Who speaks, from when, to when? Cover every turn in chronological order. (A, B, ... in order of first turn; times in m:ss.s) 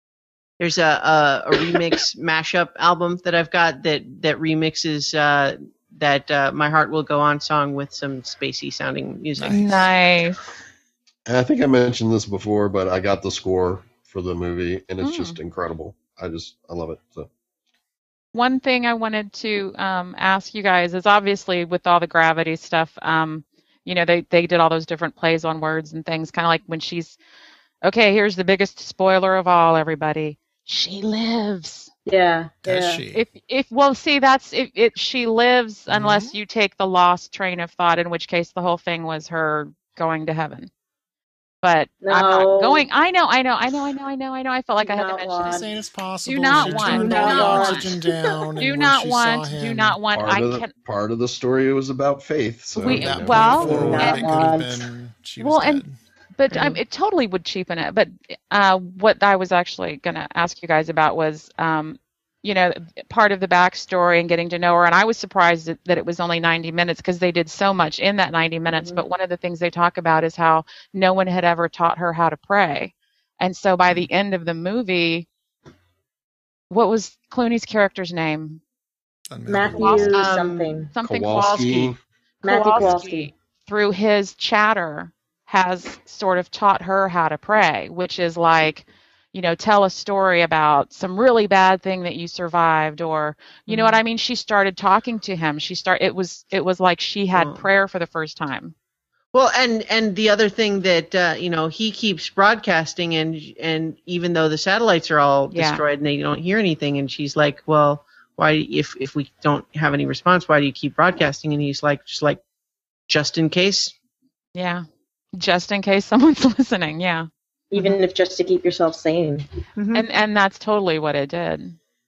0:00.6-0:09.8 A
0:09.4-0:09.8 B
0:09.5-0:10.4 C
0:11.3-0:17.3 D
0:15.0-0:15.4 C
0:18.3-0:27.2 C
0:27.8-0:31.9 C
0:32.0-0:33.0 E
0:32.6-0:33.2 B
0:33.1-0:40.7 C
0:35.9-0:36.3 B
0:41.6-0:45.6 C
0:42.0-0:42.9 E
0:44.8-0:45.7 E
0:45.4-0:50.0 B
0:46.2-0:47.9 C
0:46.5-0:48.4 E
0:46.7-0:47.5 A
0:48.6-0:50.7 C
0:50.1-0:54.5 D
0:52.8-0:54.3 C
0:52.8-0:55.9 B
0:53.7-0:54.8 E
0:55.4-0:55.8 C
0:56.4-1:15.3 C
0:56.5-0:56.8 A
1:16.7-1:18.6 C
1:19.3-1:20.1 B
1:19.5-1:20.9 E
1:19.8-1:20.2 C
1:20.1-1:20.9 A
1:20.9-1:38.7 C
1:21.0-1:22.0 D
1:22.4-1:23.3 E
1:33.7-1:34.0 A
1:37.3-1:37.6 A
1:39.3-1:52.4 A
1:45.5-1:45.8 C
1:53.1-1:53.9 A
1:54.5-1:57.3 C
1:57.7-1:59.5 E
1:59.8-2:00.0 A
1:59.9-2:01.8 C